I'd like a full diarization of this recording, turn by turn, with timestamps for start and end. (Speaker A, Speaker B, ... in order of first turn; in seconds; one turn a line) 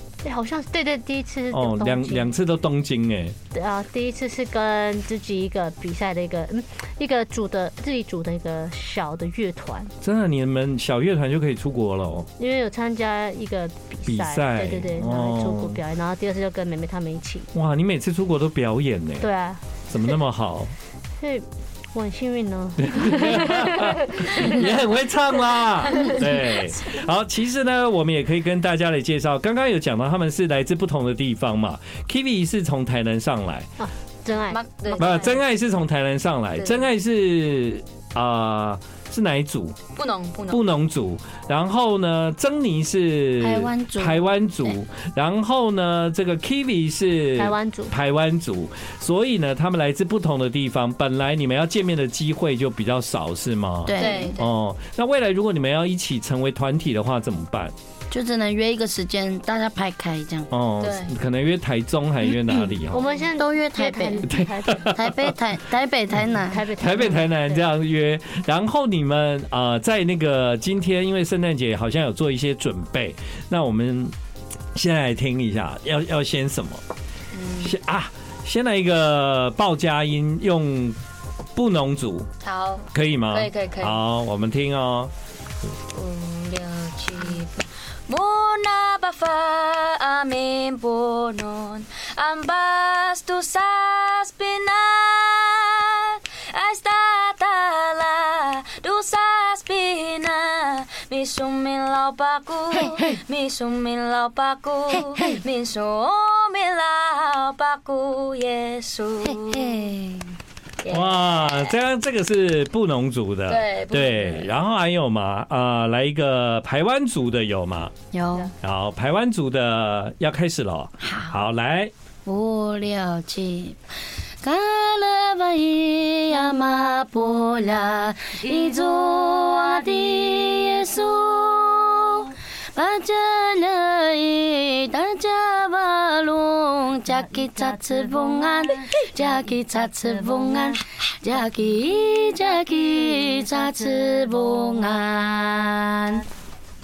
Speaker A: 0.2-2.3
Speaker B: 1.5-3.4
Speaker A: 3.5-9.9
Speaker B: 10.0-12.3
Speaker A: 12.4-17.5
Speaker B: 14.1-15.8
Speaker B: 17.5-19.3
Speaker A: 19.2-20.2
Speaker B: 19.9-20.7
Speaker A: 21.2-24.7
Speaker B: 22.8-33.7
Speaker A: 33.8-35.2
Speaker C: 34.5-35.4
Speaker B: 35.0-39.8
Speaker C: 40.0-40.6
Speaker B: 40.5-57.7
Speaker D: 43.4-44.8
Speaker A: 47.4-47.9
Speaker D: 53.9-54.4
Speaker C: 54.0-54.5
Speaker D: 58.1-60.5
Speaker B: 60.5-63.2
Speaker C: 60.8-61.1
Speaker A: 62.9-65.0
Speaker D: 63.4-64.3
Speaker B: 64.3-65.3
Speaker D: 64.9-66.7
Speaker A: 66.2-67.7
Speaker B: 66.8-74.1
Speaker B: 74.7-76.8
Speaker C: 77.3-77.8
Speaker B: 77.6-81.0
Speaker B: 81.5-82.3
Speaker C: 82.4-84.0
Speaker B: 82.9-85.1
Speaker C: 85.9-109.9
Speaker D: 102.7-103.2
Speaker D: 105.0-105.4
Speaker D: 109.2-110.2
Speaker C: 110.8-111.8
Speaker B: 110.9-117.9
Speaker C: 113.5-114.5
Speaker D: 118.1-118.5
Speaker B: 118.6-121.9
Speaker D: 121.0-121.4
Speaker D: 122.3-123.8
Speaker D: 124.4-146.2
Speaker A: 137.1-140.8
Speaker A: 142.9-144.9